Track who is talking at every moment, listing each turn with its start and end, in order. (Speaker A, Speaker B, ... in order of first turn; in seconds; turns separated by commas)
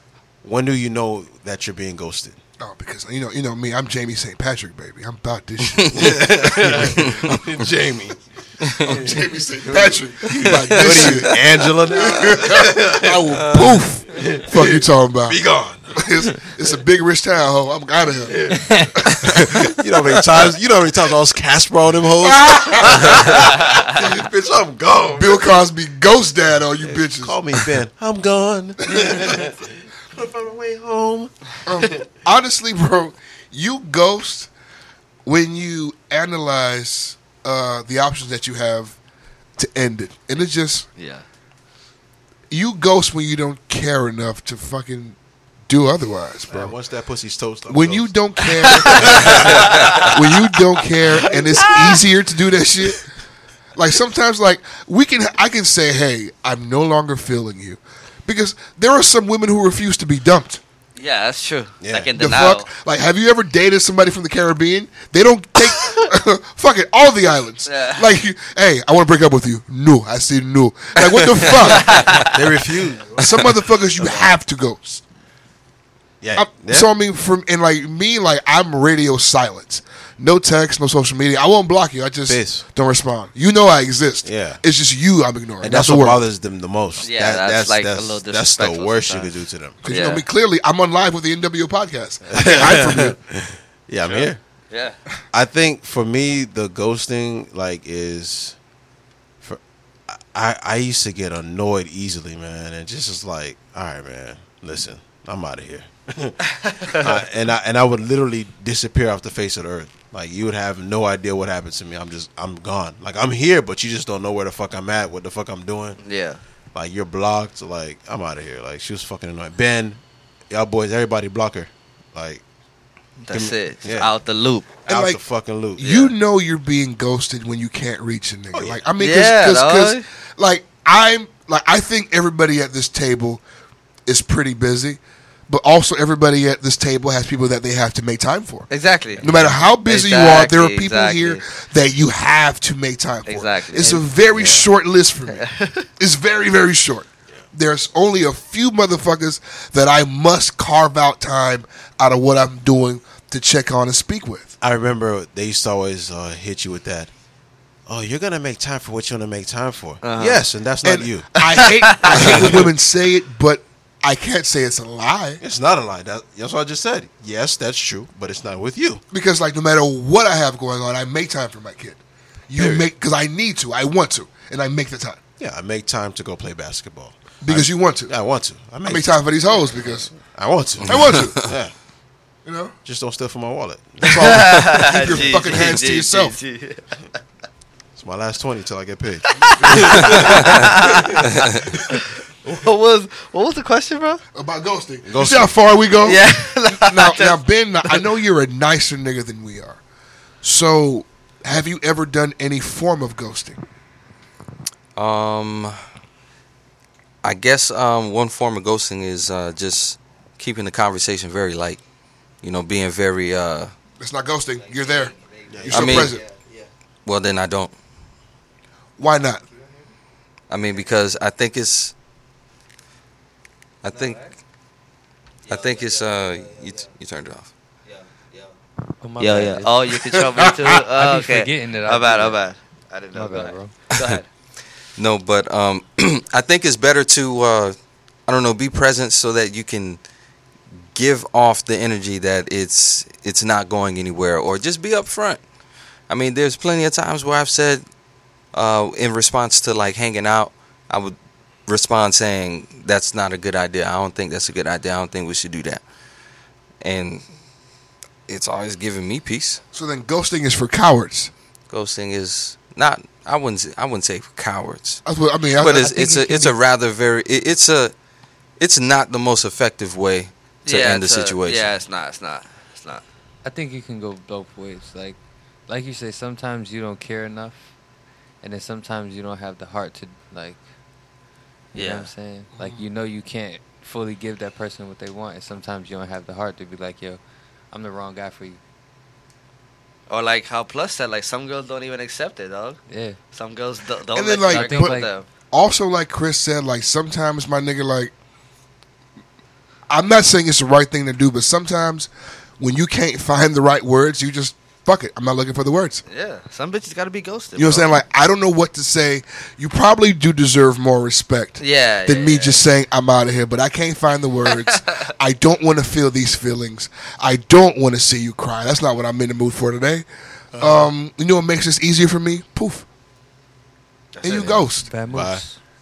Speaker A: 0.4-2.4, Speaker B: 2.6-7.4, Speaker A: 5.9-16.0, Speaker C: 8.6-9.0, Speaker B: 8.8-15.4, Speaker C: 10.4-11.2, Speaker B: 15.9-19.7, Speaker A: 18.3-18.7, Speaker D: 18.6-19.1, Speaker A: 19.2-25.5, Speaker B: 22.2-23.3, Speaker B: 25.1-27.4, Speaker A: 26.8-32.1, Speaker B: 31.7-34.5, Speaker B: 35.3-39.0, Speaker B: 39.6-40.9, Speaker E: 41.0-41.2, Speaker B: 42.5-45.2, Speaker B: 45.7-46.8, Speaker A: 46.5-48.1, Speaker B: 47.7-53.1, Speaker A: 48.7-50.1, Speaker E: 48.9-50.1, Speaker A: 51.3-51.7, Speaker B: 53.8-60.6, Speaker E: 61.0-62.7, Speaker A: 61.8-62.1, Speaker B: 62.1-72.1, Speaker E: 67.7-68.1, Speaker E: 71.7-72.3, Speaker A: 72.3-73.3, Speaker B: 73.2-75.0, Speaker A: 74.0-74.3, Speaker A: 76.2-76.9, Speaker B: 76.3-86.2, Speaker A: 82.3-82.7, Speaker A: 84.2-84.6, Speaker A: 85.6-89.8, Speaker E: 87.0-90.2, Speaker B: 89.8-93.2, Speaker A: 92.3-94.4, Speaker E: 94.0-95.0, Speaker A: 95.3-98.6, Speaker A: 99.4-116.0, Speaker E: 106.6-107.0, Speaker E: 116.0-116.4, Speaker A: 116.7-122.4, Speaker E: 123.2-124.7, Speaker A: 123.3-124.1, Speaker B: 124.9-125.2, Speaker A: 124.9-126.0, Speaker B: 125.8-133.4, Speaker E: 125.8-126.1, Speaker A: 128.5-128.8, Speaker E: 129.0-130.1, Speaker B: 134.1-138.7, Speaker E: 138.7-139.2, Speaker B: 139.2-145.5, Speaker A: 139.2-139.5, Speaker E: 139.8-141.4, Speaker E: 143.3-144.0, Speaker A: 144.3-144.7, Speaker E: 145.3-145.9, Speaker B: 146.0-154.6, Speaker A: 154.6-157.1, Speaker A: 157.9-161.4, Speaker E: 160.0-160.4, Speaker B: 160.8-165.4, Speaker E: 161.4-162.6, Speaker A: 162.1-162.7, Speaker A: 165.4-169.0, Speaker B: 169.1-175.2, Speaker A: 172.6-172.9, Speaker A: 175.4-181.7, Speaker B: 177.4-178.1, Speaker B: 178.8-180.1, Speaker B: 180.8-181.4, Speaker B: 182.4-182.8, Speaker A: 182.8-185.8, Speaker B: 184.0-186.4, Speaker E: 184.1-187.2, Speaker A: 188.0-191.8, Speaker E: 189.4-194.2, Speaker B: 189.6-190.1, Speaker B: 194.3-199.8, Speaker A: 195.1-195.5, Speaker E: 196.0-198.1, Speaker B: 200.4-203.6, Speaker C: 205.0-205.8, Speaker C: 207.2-211.8, Speaker C: 212.4-213.7, Speaker B: 214.0-215.1, Speaker E: 214.6-216.7, Speaker A: 215.5-216.1, Speaker B: 215.7-216.2, Speaker C: 215.7-216.1, Speaker C: 217.1-217.7, Speaker B: 219.0-219.4, Speaker C: 220.5-221.9, Speaker C: 223.8-224.2, Speaker E: 223.9-224.3, Speaker E: 225.5-226.9, Speaker C: 225.5-227.5, Speaker E: 227.9-228.6, Speaker D: 229.0-229.9, Speaker E: 229.2-234.3, Speaker D: 230.9-232.4, Speaker D: 233.1-233.7, Speaker C: 235.0-237.8, Speaker C: 238.3-240.0, Speaker C: 240.9-245.4, Speaker C: 246.1-247.8, Speaker C: 248.5-251.2, Speaker C: 251.7-255.8, Speaker C: 256.8-257.2, Speaker C: 258.3-259.6, Speaker B: 259.7-261.3, Speaker C: 261.7-265.0, Speaker B: 265.1-266.5, Speaker C: 265.6-267.9, Speaker C: 268.6-271.7, Speaker E: 270.6-273.1, Speaker D: 273.4-275.2, Speaker D: 275.7-277.7, Speaker D: 278.4-280.6, Speaker D: 281.7-287.2, Speaker E: 281.8-282.1, Speaker B: 282.6-282.9, Speaker D: 287.7-288.6, Speaker E: 290.1-292.8, Speaker D: 292.9-293.2, Speaker E: 293.3-295.3, Speaker B: 294.1-295.0, Speaker D: 294.5-295.1, Speaker B: 295.5-298.1, Speaker B: 299.9-306.0, Speaker E: 306.1-307.9, Speaker B: 307.6-320.1, Speaker E: 311.6-312.6, Speaker E: 314.5-314.8, Speaker B: 320.6-322.9, Speaker E: 324.2-324.6, Speaker B: 324.2-324.9, Speaker D: 324.8-325.6, Speaker A: 325.1-325.4